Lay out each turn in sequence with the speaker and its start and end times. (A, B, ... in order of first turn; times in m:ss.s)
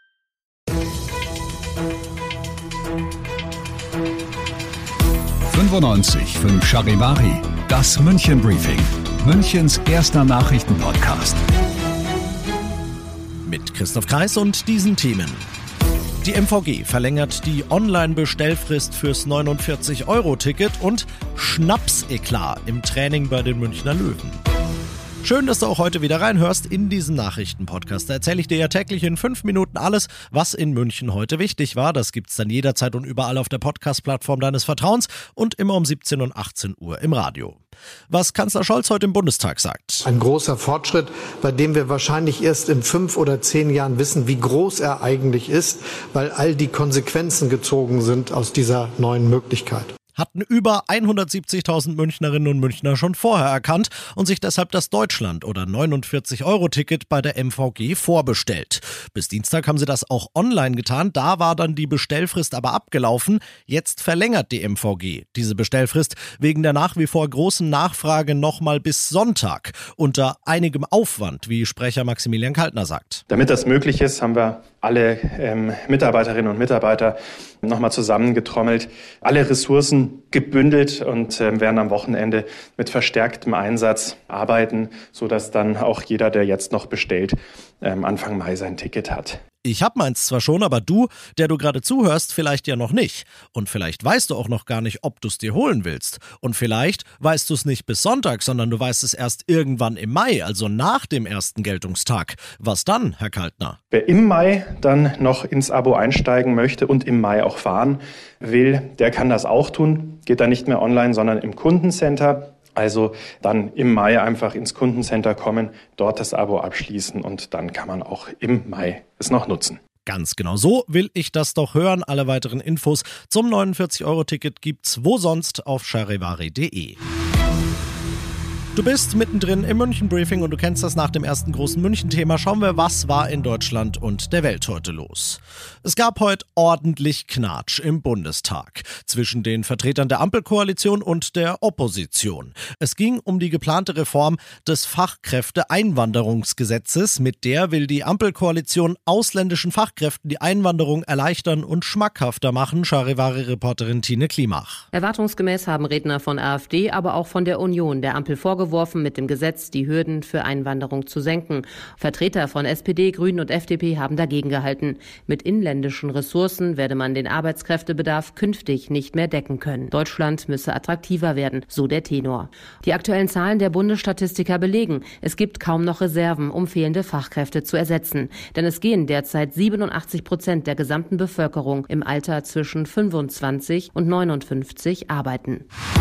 0:05.5-0:11.4 A
0:13.4-0:15.4 B
0:16.2-0:24.4 B
0:25.2-0:37.6 B
0:38.1-0:40.0 B
0:40.0-0:49.9 C
0:50.2-1:13.2 B
1:13.3-1:29.4 D
1:29.6-1:43.8 B
1:43.9-1:59.8 D
2:00.1-2:07.0 B
2:08.8-2:34.8 B
2:34.9-3:05.7 E